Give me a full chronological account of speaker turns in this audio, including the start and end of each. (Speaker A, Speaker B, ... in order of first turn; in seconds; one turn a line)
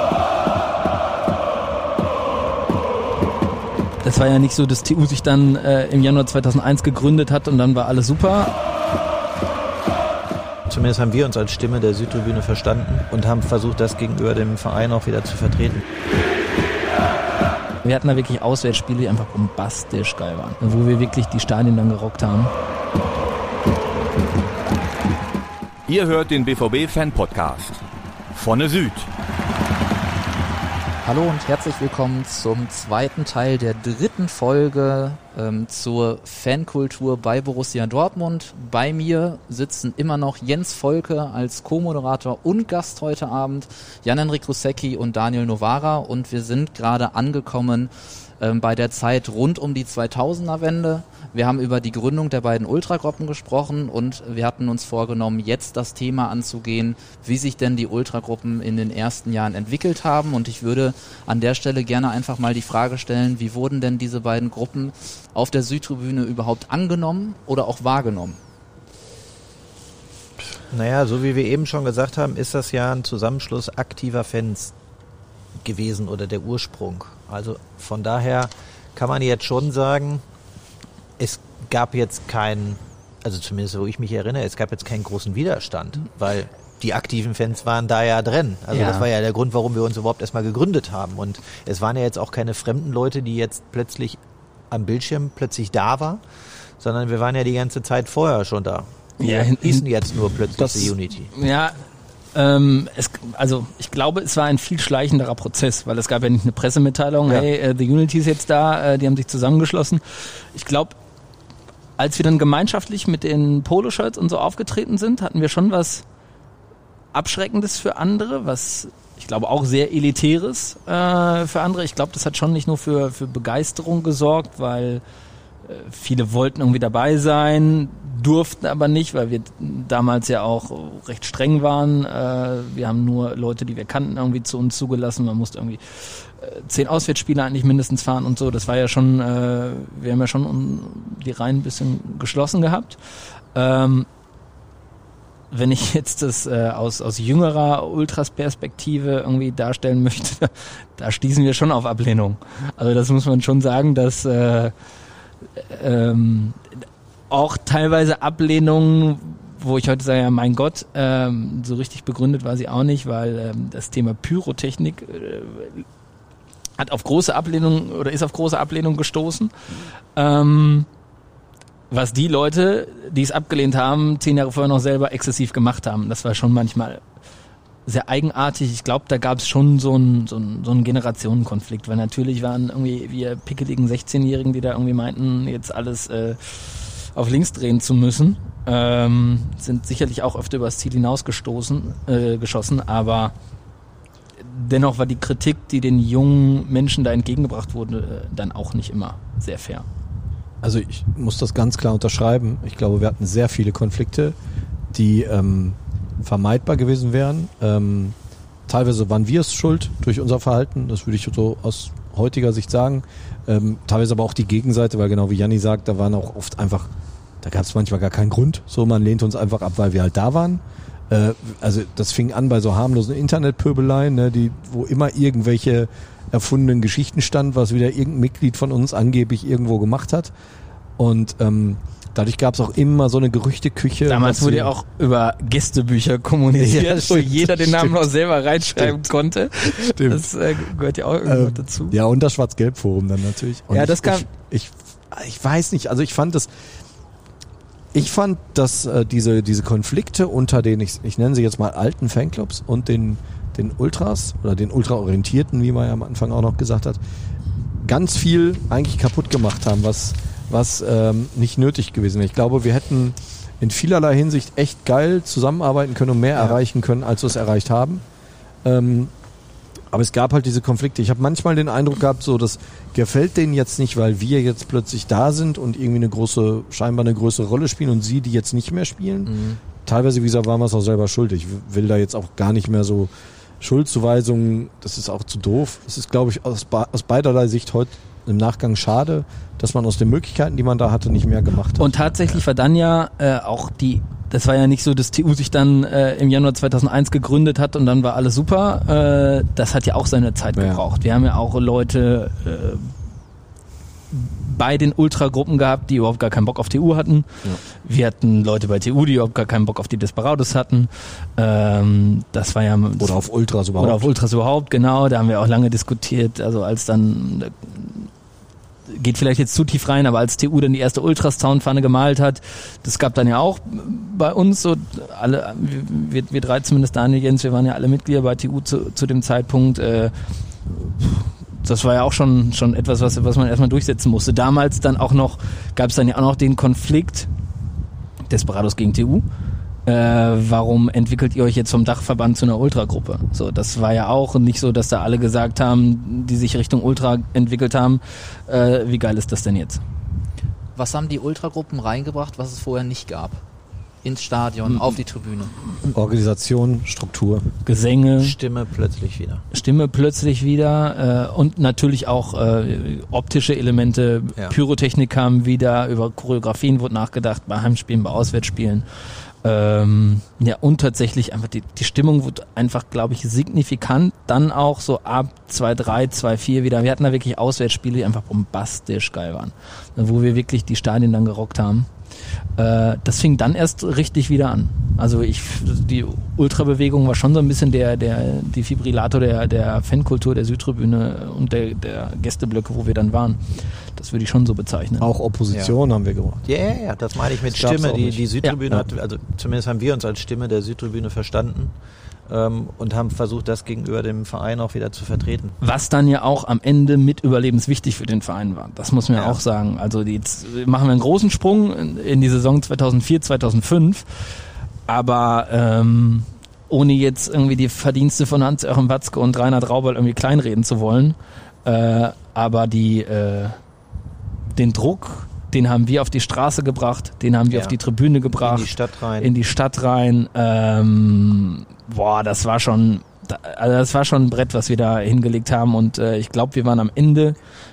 Speaker A: 4.0-8.5
Speaker B: 10.7-15.8
Speaker A: 17.8-22.5
Speaker C: 25.9-29.1
Speaker D: 31.0-68.4
Speaker B: 70.5-74.7
Speaker B: 75.6-80.2
Speaker B: 81.2-94.2
Speaker A: 88.7-89.1
Speaker B: 94.7-96.2
Speaker B: 96.8-101.3
Speaker A: 99.2-99.9
Speaker E: 100.6-100.9
Speaker A: 100.6-101.8
Speaker A: 102.3-111.0
Speaker A: 112.0-116.0
Speaker A: 117.1-125.0
Speaker A: 125.6-143.0
Speaker A: 143.5-144.1
Speaker A: 145.5-154.7
Speaker A: 155.6-165.9
Speaker A: 166.8-169.5
Speaker A: 170.1-170.9
Speaker A: 171.9-177.0
Speaker A: 177.9-193.3
Speaker A: 194.4-199.9
Speaker E: 200.6-204.4
Speaker E: 204.9-208.2
Speaker E: 208.7-216.9
Speaker E: 217.4-230.3
Speaker E: 231.0-234.7
Speaker A: 234.1-242.0
Speaker E: 236.6-238.0
Speaker E: 238.8-240.3
Speaker E: 241.2-246.6
Speaker A: 243.7-244.3
Speaker E: 247.9-257.0
Speaker E: 257.8-268.0
Speaker E: 268.6-269.1
Speaker E: 269.9-292.0
Speaker B: 279.3-279.6
Speaker A: 291.8-302.9
Speaker E: 300.6-300.8
Speaker A: 304.1-313.2
Speaker E: 313.0-314.1
Speaker A: 313.8-318.1
Speaker A: 318.9-330.1
Speaker A: 330.7-337.3
Speaker A: 338.3-339.2
Speaker A: 339.9-349.8
Speaker D: 350.8-353.4
Speaker D: 354.0-355.6
Speaker E: 355.9-357.5
Speaker A: 357.6-358.4
Speaker B: 358.2-359.4
Speaker A: 359.5-368.9
Speaker A: 369.4-381.9
Speaker A: 382.6-395.1
Speaker E: 395.0-396.4
Speaker B: 396.4-401.7
Speaker E: 397.5-398.9
Speaker B: 402.3-405.6
Speaker A: 405.6-414.1
Speaker B: 409.1-409.4
Speaker A: 414.9-423.6
Speaker A: 424.5-437.4
Speaker B: 427.5-427.8
Speaker B: 428.3-429.3